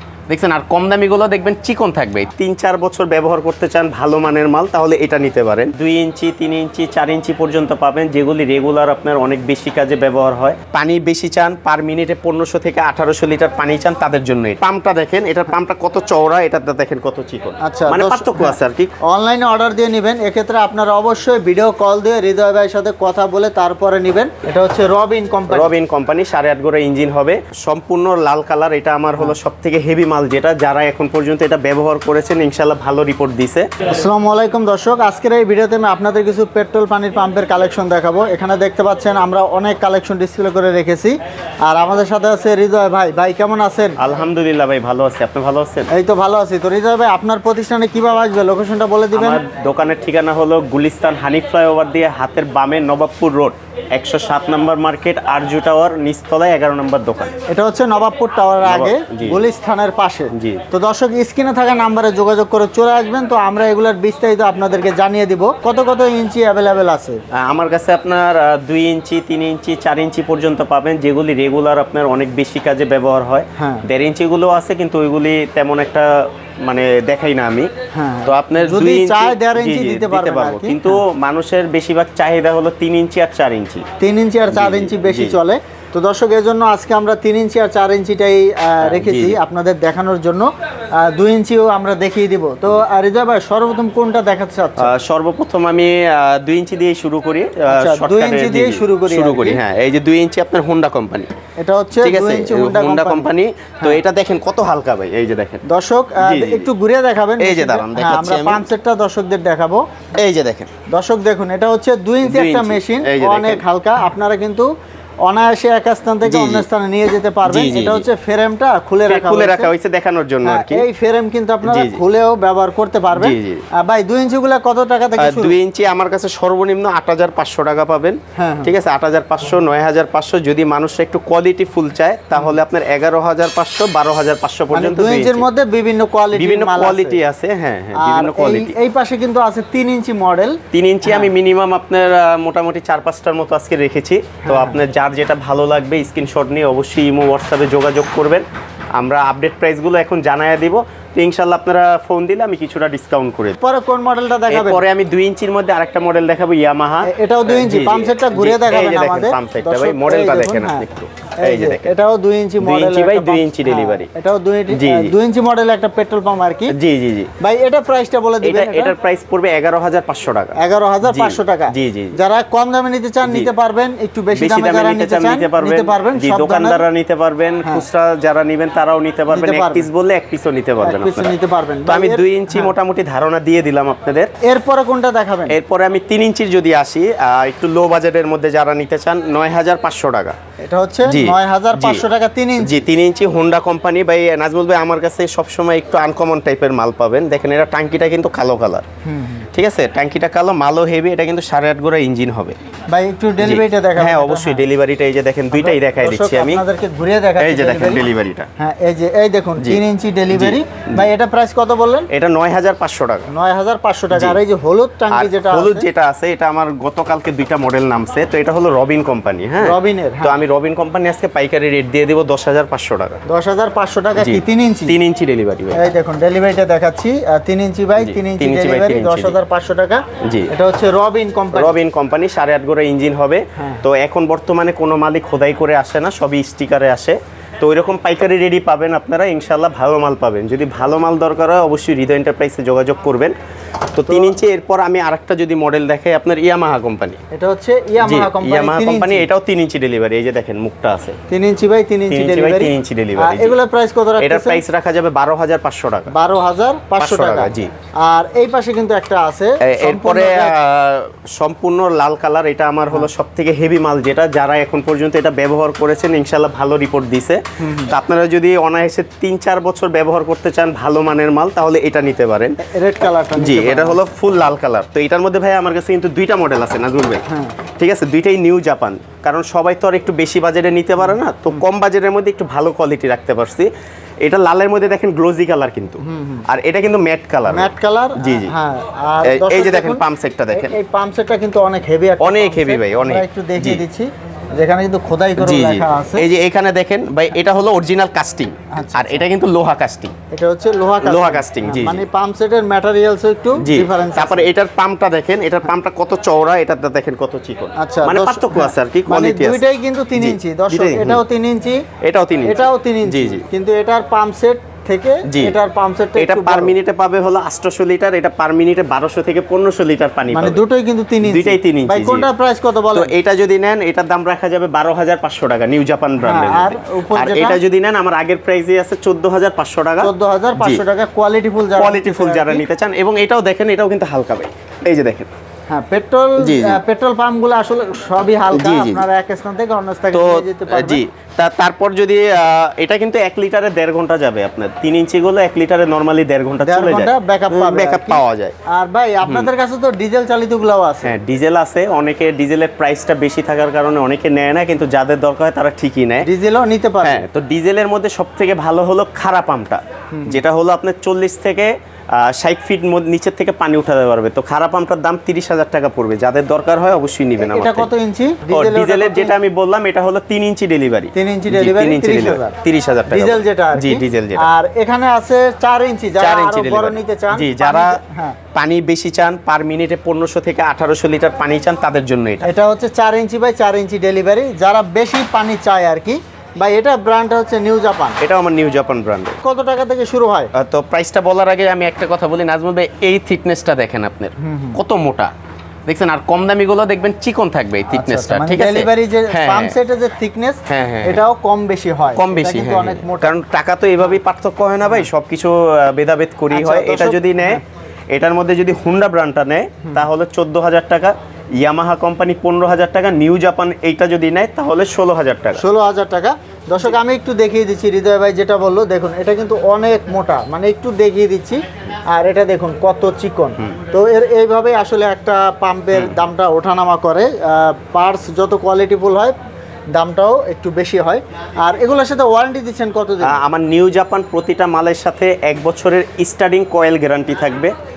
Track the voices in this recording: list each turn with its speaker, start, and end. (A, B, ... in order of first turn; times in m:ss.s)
0:00.3-0:18.9 A
0:17.6-0:25.7 B
0:25.5-0:33.7 A
0:33.9-0:41.2 B
0:41.7-0:44.0 B
0:44.0-0:45.9 A
0:45.9-0:49.4 B
0:49.1-0:57.4 A
0:57.5-1:07.2 B
0:58.6-0:59.4 A
1:00.3-1:00.6 A
1:07.4-1:17.7 A
1:13.6-1:13.8 B
1:17.9-1:21.0 B
1:18.3-1:23.9 A
1:24.0-1:30.5 B
1:24.5-1:25.4 A
1:28.8-1:29.4 A
1:31.0-1:34.9 B
1:34.8-1:41.3 A
1:37.7-1:39.6 B
1:41.6-1:43.3 B
1:42.0-1:45.6 A
1:45.7-1:49.8 B
1:46.2-1:46.7 A
1:47.4-1:48.7 A
1:50.2-1:50.7 A
1:50.9-1:54.7 B
1:52.2-1:53.6 A
1:55.2-1:59.7 B
1:56.2-1:56.7 A
1:57.5-1:58.1 A
1:59.1-2:00.9 A
2:00.4-2:05.6 B
2:01.6-2:02.0 A
2:03.1-2:03.6 A
2:05.2-2:15.5 A
2:08.4-2:08.8 B
2:14.7-2:17.2 B
2:16.3-2:18.7 A
2:17.9-2:21.3 B
2:20.7-2:28.4 A
2:24.4-2:24.8 B
2:29.0-2:33.6 A
2:33.6-2:34.8 B
2:34.5-2:41.9 A
2:37.0-2:40.9 B
2:41.4-2:46.7 B
2:42.6-2:44.1 A
2:44.7-2:45.1 A
2:46.7-2:47.3 A
2:47.4-2:49.0 B
2:48.4-2:52.2 A
2:50.6-2:56.9 B
2:54.3-3:01.3 A
2:59.3-2:59.9 B
3:00.8-3:02.8 B
3:01.9-3:04.3 A
3:04.4-3:05.6 B
3:05.5-3:10.4 A
3:10.6-3:12.8 B
3:11.1-3:12.0 A
3:12.6-3:18.8 A
3:19.1-3:19.5 B
3:19.5-3:22.6 A
3:22.9-3:24.6 B
3:23.4-3:26.6 A
3:25.5-3:28.1 B
3:27.4-3:28.5 A
3:28.6-3:32.1 B
3:29.6-3:31.1 A
3:32.1-3:33.3 A
3:33.3-3:35.9 B
3:34.1-3:34.4 A
3:35.1-3:43.2 A
3:39.6-3:40.4 B
3:43.3-3:45.0 B
3:44.2-3:45.8 A
3:45.7-3:51.8 B
3:48.0-3:49.4 A
3:50.2-3:50.5 A
3:51.5-4:03.3 A
4:03.9-4:07.2 A
4:04.1-4:04.4 B
4:07.3-4:09.3 B
4:08.0-4:11.2 A
4:11.3-4:14.6 B
4:12.1-4:13.6 A
4:14.2-4:16.1 A
4:16.1-4:17.6 B
4:17.0-4:17.7 A
4:18.1-4:20.6 B
4:19.6-4:32.6 A
4:27.6-4:27.9 B
4:32.6-4:34.0 B
4:33.4-4:37.2 A
4:37.3-4:37.6 B
4:37.8-4:43.7 A
4:41.1-4:41.6 B
4:44.2-4:48.5 A
4:46.1-4:46.4 B
4:47.5-4:56.3 B
4:49.2-4:50.8 A
4:52.2-4:53.8 A
4:55.4-5:00.1 A
4:58.7-4:59.3 B
5:00.3-5:04.5 B
5:01.0-5:02.0 A
5:03.6-5:09.6 A
5:07.8-5:11.8 B
5:10.2-5:11.2 A
5:12.0-5:13.4 A
5:12.4-5:16.7 B
5:15.3-5:15.6 A
5:16.2-5:20.6 A
5:20.3-5:23.1 B
5:21.2-5:22.3 A
5:22.9-5:30.8 A
5:26.2-5:27.6 B
5:30.0-5:32.6 B
5:31.8-5:35.3 A
5:35.7-5:41.0 B
5:36.4-5:36.8 A
5:38.5-5:39.0 A
5:40.1-5:48.6 A
5:46.6-5:51.2 B
5:49.2-5:49.5 A
5:51.0-5:56.3 A
5:56.2-5:57.3 B
5:57.0-6:07.9 A
6:00.2-6:00.4 B
6:07.4-6:09.4 B
6:08.5-6:14.5 A
6:11.2-6:12.5 B
6:13.1-6:18.4 B
6:16.2-6:18.0 A
6:18.5-6:22.5 A
6:22.4-6:28.2 B
6:28.2-6:29.4 A
6:29.4-6:30.5 B
6:30.5-6:35.3 A
6:34.4-6:34.8 B
6:35.9-6:39.7 A
6:37.9-6:43.4 B
6:40.7-6:41.2 A
6:42.2-6:55.6 A
6:44.8-6:45.1 B
6:46.5-6:47.6 B
6:55.6-7:09.4 B
7:09.9-7:13.4 B
7:13.2-7:17.7 A